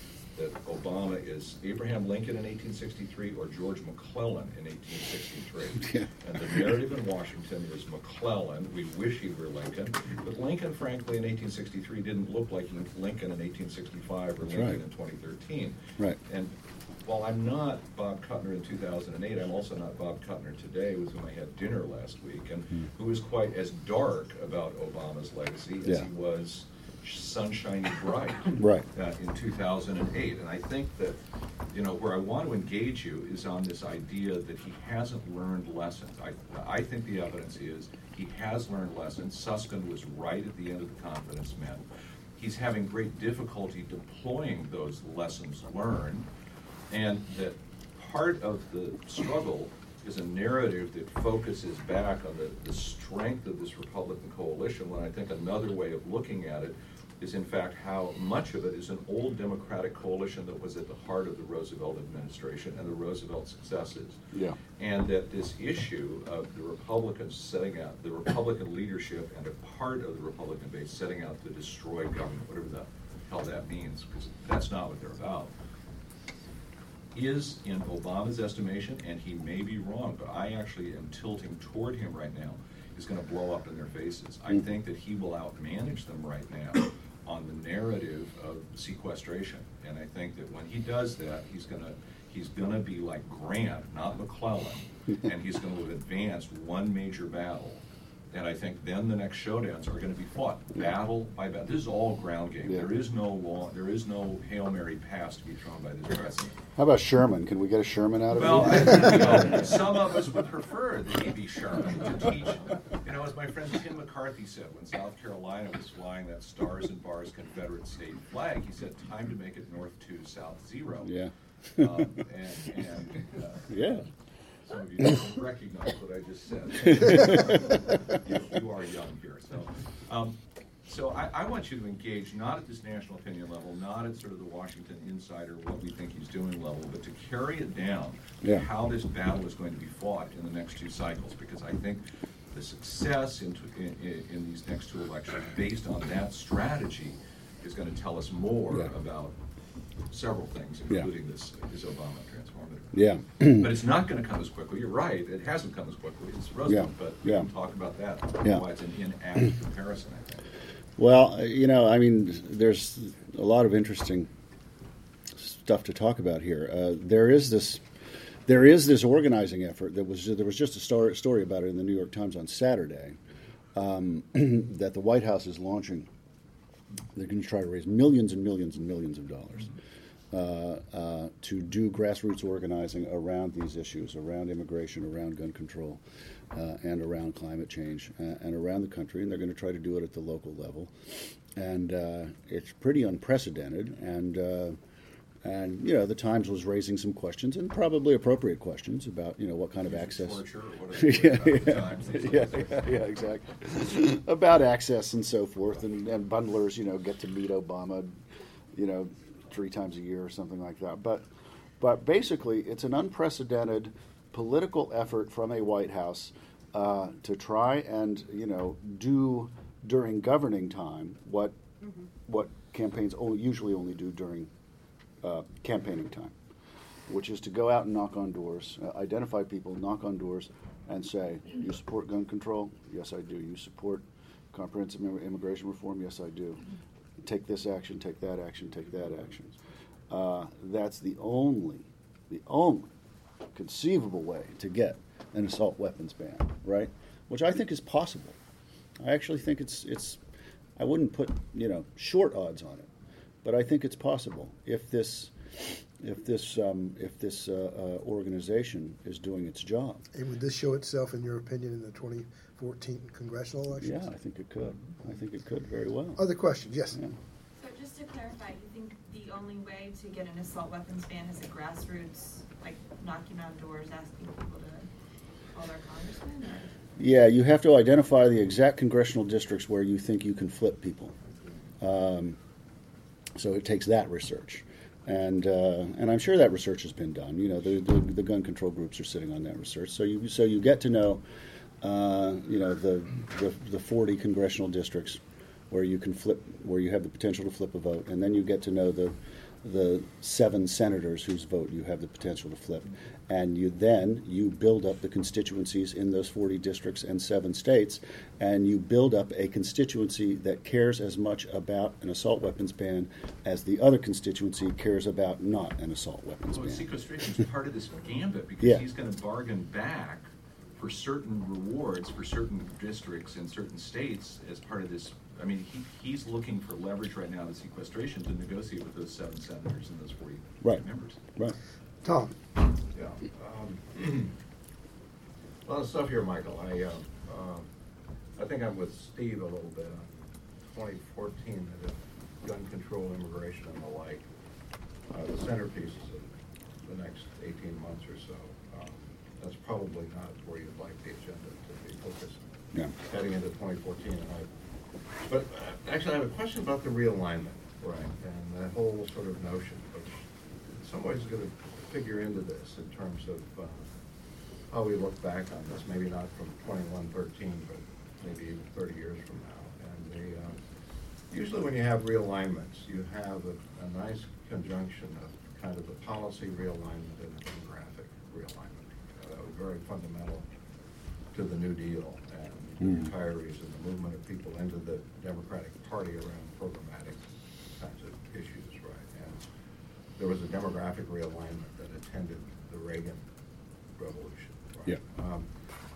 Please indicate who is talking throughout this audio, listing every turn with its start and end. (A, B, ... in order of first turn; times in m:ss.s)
0:00.3-0:41.8 A
0:05.8-0:06.1 B
0:14.4-0:14.8 B
0:28.5-0:28.9 B
0:42.4-0:46.3 A
0:46.9-1:04.2 A
1:04.3-1:04.6 B
1:04.8-1:15.5 A
1:17.1-1:46.6 A
1:46.8-1:50.1 B
1:48.3-2:01.1 A
2:01.0-2:02.1 B
2:01.8-2:04.0 A
2:03.7-2:04.0 B
2:04.6-2:29.3 A
2:06.9-2:08.2 B
2:18.4-2:18.7 B
2:30.1-2:40.4 A
2:32.9-2:33.7 B
2:36.6-2:37.5 B
2:41.0-2:44.3 B
2:45.3-2:47.8 B
2:48.4-2:53.2 B
2:53.7-2:56.1 B
2:57.1-2:59.7 B
3:00.3-3:14.8 B
3:15.4-3:20.4 B
3:19.8-3:23.0 A
3:20.9-3:28.2 B
3:28.7-3:31.3 B
3:31.8-3:41.6 B
3:42.3-3:44.5 B
3:45.2-3:46.3 B
3:47.1-3:56.7 B
3:57.2-3:59.6 B
4:00.1-4:02.9 B
4:03.5-4:08.4 B
4:09.0-4:10.2 B
4:10.8-4:12.9 B
4:13.4-4:20.0 B
4:20.1-4:24.1 C
4:23.8-4:26.2 B
4:26.2-4:27.0 C
4:27.5-4:34.9 D
4:35.5-4:36.7 D
4:37.0-4:41.2 B
4:41.8-4:42.4 B
4:43.3-4:51.2 B
4:51.8-5:16.9 B
5:16.4-5:31.2 A
5:18.6-5:18.8 B
5:32.0-5:32.3 C
5:32.9-5:34.3 E
5:35.6-5:37.7 E
5:38.4-5:44.2 E
5:45.1-5:46.3 E
5:46.8-5:52.4 E
5:53.0-5:54.5 E
5:55.2-6:03.9 E
5:57.8-5:58.1 A
6:04.7-6:10.6 E
6:11.3-6:20.4 E
6:21.3-6:29.4 E
6:22.8-6:23.1 B
6:30.2-6:33.2 E
6:34.0-6:35.5 E